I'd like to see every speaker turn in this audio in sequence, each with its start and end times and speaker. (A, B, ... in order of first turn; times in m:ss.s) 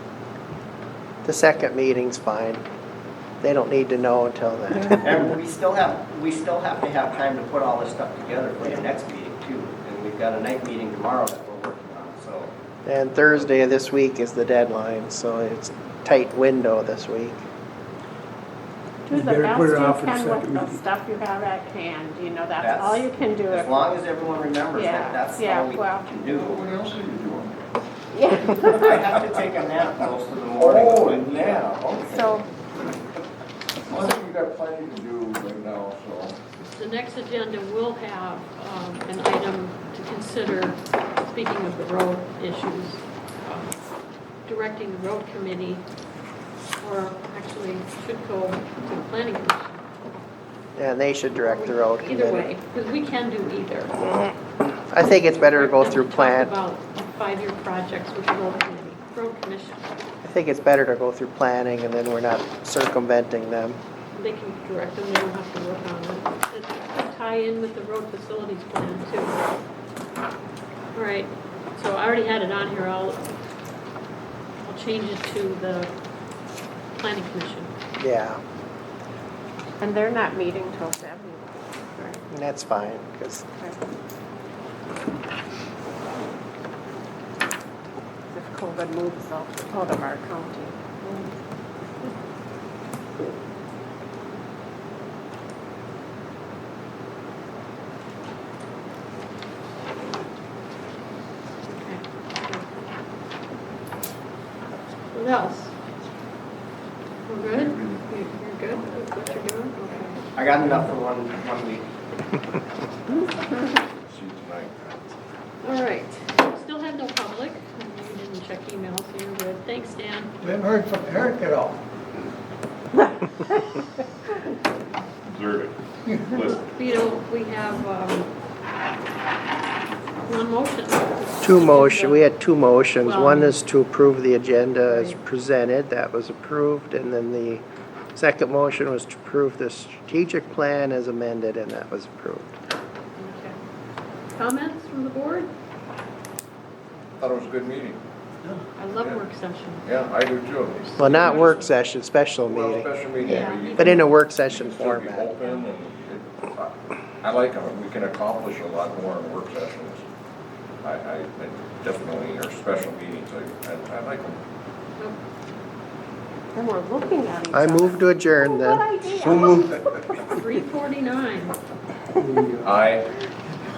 0:01.2-0:02.6 A
0:03.4-0:05.2 A
0:04.9-0:12.5 B
0:12.8-0:17.4 A
0:19.1-0:23.9 C
0:19.1-0:20.8 D
0:22.6-0:26.7 B
0:24.7-0:26.1 C
0:26.2-0:27.6 E
0:28.1-0:28.9 C
0:28.6-0:31.6 B
0:30.6-0:32.5 E
0:32.1-0:32.4 C
0:33.9-0:36.4 E
0:36.6-0:43.8 F
0:44.5-0:45.8 F
0:46.8-0:49.8 F
0:50.8-0:52.5 A
0:51.4-0:54.3 F
0:54.9-0:56.5 A
0:55.0-0:59.8 F
1:00.2-1:03.8 A
1:04.2-1:09.6 F
1:10.9-1:13.3 F
1:14.6-1:15.9 F
1:17.0-1:17.7 F
1:18.0-1:18.4 A
1:19.8-1:22.2 C
1:22.3-1:23.4 A
1:28.3-1:31.3 C
1:41.7-1:42.6 F
1:45.1-1:45.7 F
1:47.3-1:50.3 F
1:47.5-1:48.0 E
1:50.4-1:51.9 B
1:54.0-1:55.1 E
1:55.6-2:00.4 F
2:00.4-2:01.8 D
2:05.3-2:05.7 E
2:06.3-2:06.6 E
2:06.3-2:08.3 F
2:10.3-2:12.3 F
2:11.4-2:17.6 A
2:13.0-2:13.6 F
2:14.8-2:15.2 F
2:18.2-2:22.6 A
2:23.2-2:23.6 F
2:24.3-2:25.5 F
2:27.2-2:28.0 E
2:28.8-2:30.2 F
2:29.8-2:31.7 E
2:30.8-2:31.6 F
2:31.0-2:32.9 A
2:32.5-2:40.0 E
2:33.2-2:34.1 F
2:33.2-2:33.5 C
2:33.8-2:35.3 A
2:40.8-2:44.4 E
2:46.6-2:50.4 C
2:47.5-2:48.9 A
2:49.3-2:49.6 E
2:50.2-2:51.6 F
2:52.2-2:52.7 D
2:52.6-2:53.1 E